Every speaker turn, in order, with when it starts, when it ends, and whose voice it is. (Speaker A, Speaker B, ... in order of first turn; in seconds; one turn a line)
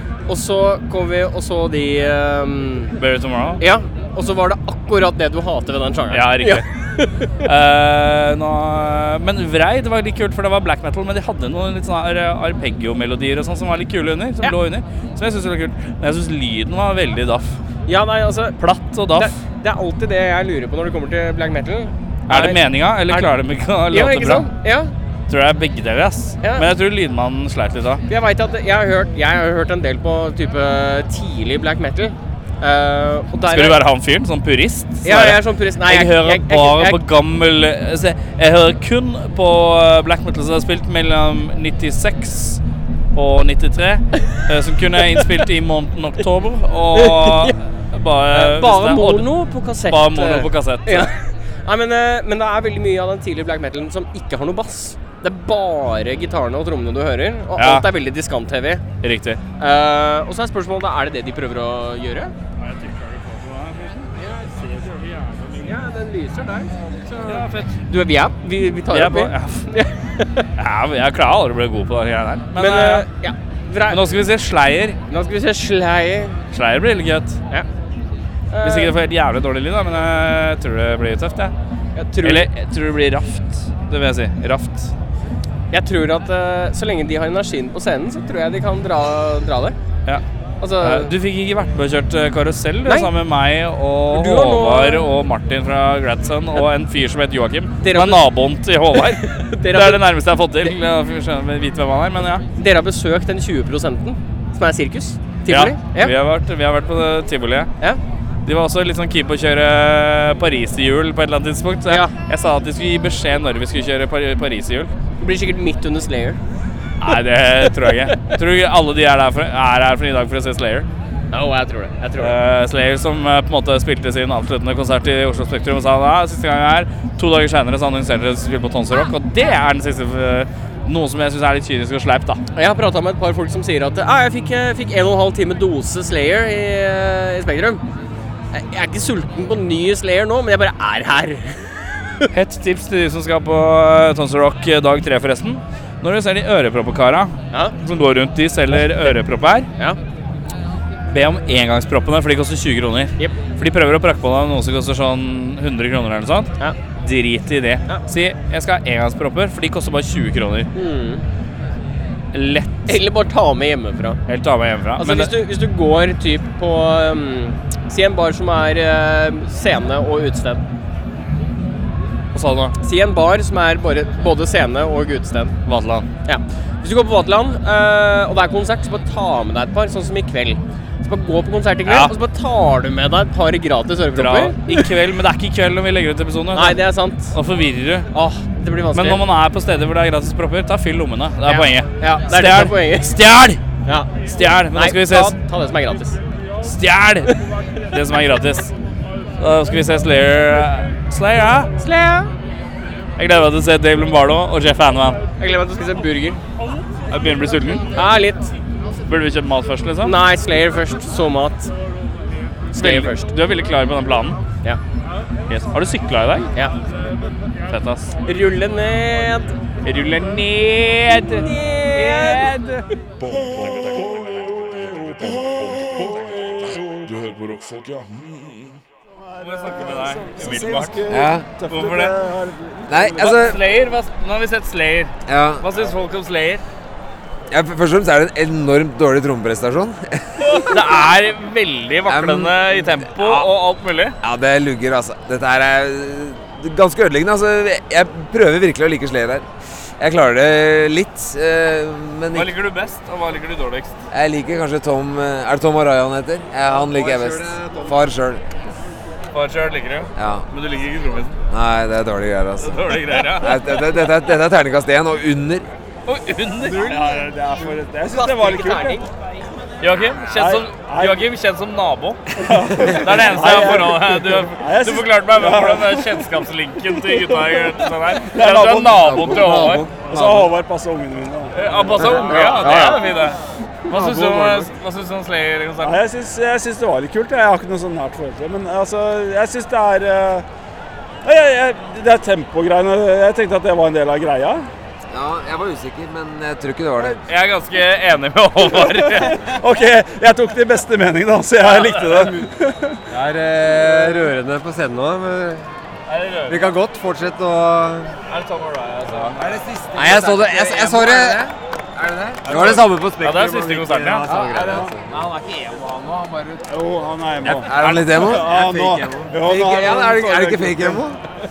Speaker A: 0.3-3.0
Speaker B: 3.0-3.6
Speaker A: 3.6-7.5
Speaker B: 6.1-6.7
Speaker B: 7.4-17.6
Speaker A: 17.9-18.6
Speaker B: 18.6-19.3
Speaker A: 19.1-23.3
Speaker B: 22.3-24.5
Speaker A: 23.9-24.9
Speaker B: 25.3-28.0
Speaker A: 28.1-33.8
Speaker B: 33.5-42.6
Speaker A: 35.0-37.0
Speaker B: 43.1-51.1
Speaker A: 46.9-47.6
Speaker A: 48.3-58.8
Speaker B: 57.6-57.9
Speaker B: 59.0-59.4
Speaker A: 59.6-62.3
Speaker B: 62.6-64.1
Speaker C: 64.2-65.6
Speaker A: 65.6-70.5
Speaker B: 67.2-67.8
Speaker B: 68.9-69.7
Speaker B: 70.5-73.0
Speaker A: 72.5-74.1
Speaker B: 73.9-75.0
Speaker A: 75.1-76.4
Speaker B: 76.5-77.4
Speaker A: 78.5-79.0
Speaker B: 78.6-81.5
Speaker A: 81.9-82.5
Speaker B: 82.2-84.9
Speaker A: 85.7-89.8
Speaker A: 90.6-91.1
Speaker B: 90.8-102.4
Speaker A: 92.8-93.1
Speaker A: 94.1-95.1
Speaker A: 97.8-98.3
Speaker A: 99.0-100.0
Speaker A: 102.6-106.1
Speaker B: 105.5-107.7
Speaker B: 108.5-114.9
Speaker A: 111.9-112.1
Speaker A: 115.2-116.4
Speaker B: 117.0-120.9
Speaker A: 121.3-122.4
Speaker B: 122.2-132.4
Speaker A: 132.5-137.8
Speaker A: 138.5-142.3
Speaker B: 142.3-149.7
Speaker B: 151.1-160.7
Speaker A: 160.7-161.2
Speaker B: 162.3-163.0
Speaker A: 162.9-164.2
Speaker B: 164.3-165.3
Speaker A: 165.0-170.6
Speaker B: 172.3-172.8
Speaker A: 172.8-175.6
Speaker B: 175.7-176.1
Speaker A: 176.2-184.9
Speaker B: 181.8-182.1
Speaker B: 184.1-188.1
Speaker A: 186.5-187.3
Speaker A: 188.1-189.2
Speaker B: 188.9-193.6
Speaker A: 191.4-193.2
Speaker B: 194.3-195.3
Speaker A: 194.7-196.2
Speaker B: 196.6-198.7
Speaker B: 199.4-201.7
Speaker A: 201.8-202.3
Speaker B: 203.2-205.2
Speaker A: 205.4-206.4
Speaker B: 207.1-207.9
Speaker A: 207.9-208.5
Speaker B: 209.1-210.2
Speaker A: 210.0-211.7
Speaker A: 212.7-213.3
Speaker B: 212.8-214.4
Speaker B: 215.5-216.5
Speaker B: 217.7-218.1
Speaker A: 218.2-219.6
Speaker B: 219.8-222.8
Speaker A: 221.2-222.6
Speaker D: 223.2-228.8
Speaker C: 229.2-233.5
Speaker B: 229.4-231.2
Speaker E: 231.1-231.5
Speaker B: 231.7-232.2
Speaker E: 232.9-233.6
Speaker B: 233.2-236.6
Speaker E: 235.2-235.8
Speaker E: 237.5-240.8
Speaker B: 240.4-244.2
Speaker E: 242.1-243.5
Speaker E: 244.2-249.5
Speaker E: 250.0-252.5
Speaker B: 252.3-254.0
Speaker E: 254.1-258.4
Speaker F: 256.7-258.1
Speaker B: 259.3-261.4
Speaker E: 260.1-260.5
Speaker E: 261.5-265.7
Speaker B: 262.6-263.6
Speaker B: 266.1-267.1
Speaker C: 266.6-269.0
Speaker A: 268.0-269.1
Speaker B: 269.8-279.9
Speaker C: 270.3-271.2
Speaker C: 272.4-276.3
Speaker C: 277.0-277.5
Speaker C: 278.3-282.5
Speaker F: 279.0-280.2
Speaker B: 281.5-286.0
Speaker E: 282.0-282.9
Speaker A: 282.3-283.1
Speaker F: 282.6-282.9
Speaker C: 283.9-284.7
Speaker C: 285.8-290.4
Speaker C: 291.2-294.7
Speaker E: 295.1-297.2
Speaker B: 297.2-299.5
Speaker C: 298.8-303.0
Speaker B: 301.6-302.4
Speaker F: 303.1-305.7
Speaker B: 306.1-306.7
Speaker F: 306.5-308.2
Speaker B: 308.3-309.6
Speaker E: 309.3-312.9
Speaker F: 309.9-311.4
Speaker F: 312.4-315.3
Speaker B: 312.4-314.3
Speaker E: 314.3-316.6
Speaker C: 314.6-314.9
Speaker C: 316.7-321.0
Speaker E: 317.4-321.2
Speaker B: 317.7-318.3
Speaker F: 318.4-319.3